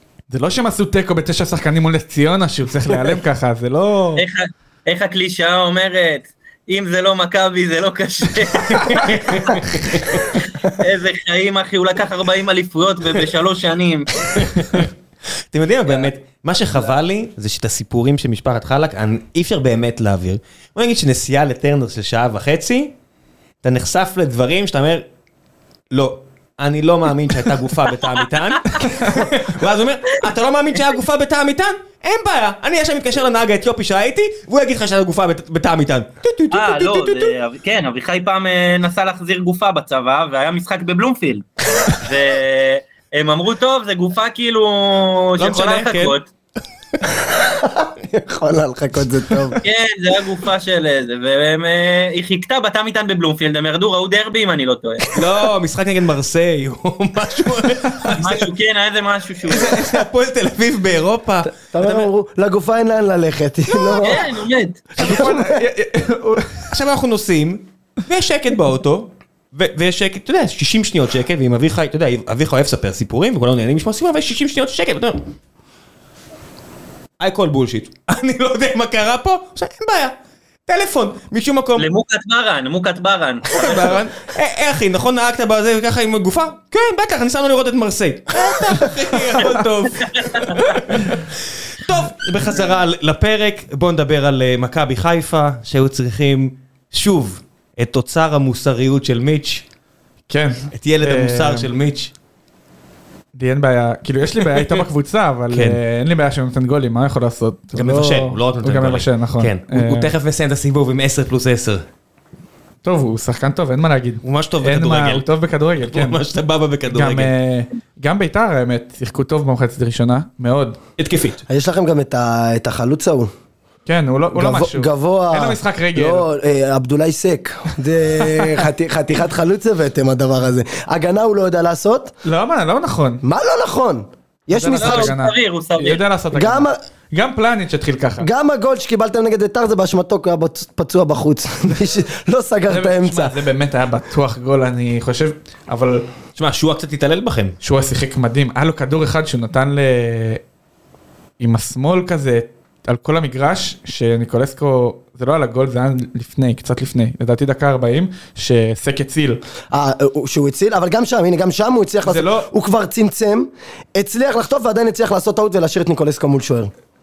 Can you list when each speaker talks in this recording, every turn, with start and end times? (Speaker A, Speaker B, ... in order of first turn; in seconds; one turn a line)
Speaker A: 0.3-4.2
Speaker B: 4.2-9.6
Speaker C: 8.8-10.2
Speaker B: 10.1-14.5
Speaker C: 14.3-14.9
Speaker C: 15.5-22.9
Speaker C: 23.6-25.1
Speaker C: 25.9-37.4
Speaker B: 36.5-46.3
Speaker C: 45.4-46.2
Speaker D: 47.1-49.6
Speaker B: 49.6-55.2
Speaker C: 55.1-58.5
Speaker B: 58.2-59.9
Speaker C: 59.4-62.1
Speaker D: 61.5-64.3
Speaker B: 63.8-65.2
Speaker A: 65.0-66.7
Speaker D: 65.0-65.6
Speaker C: 66.7-75.3
Speaker C: 77.2-80.1
Speaker C: 80.7-81.9
Speaker B: 81.8-84.0
Speaker C: 83.5-99.6
Speaker B: 90.0-90.8
Speaker A: 100.3-101.7
Speaker C: 100.7-102.1
Speaker A: 103.3-110.1
Speaker C: 105.5-105.8
Speaker C: 107.8-111.8
Speaker D: 107.8-108.2
Speaker A: 112.8-116.2
Speaker C: 114.2-115.3
Speaker C: 115.8-117.3
Speaker A: 116.9-120.8
Speaker C: 121.0-121.4
Speaker D: 121.5-123.3
Speaker A: 123.9-126.3
Speaker D: 124.3-132.1
Speaker A: 128.2-128.6
Speaker A: 132.2-133.2
Speaker D: 133.2-135.2
Speaker A: 134.5-138.3
Speaker B: 134.8-136.0
Speaker D: 136.3-136.8
Speaker D: 138.2-143.4
Speaker A: 142.7-146.1
Speaker C: 146.4-147.6
Speaker A: 147.6-150.4
Speaker A: 151.4-159.4
Speaker D: 159.7-166.7
Speaker A: 162.1-162.5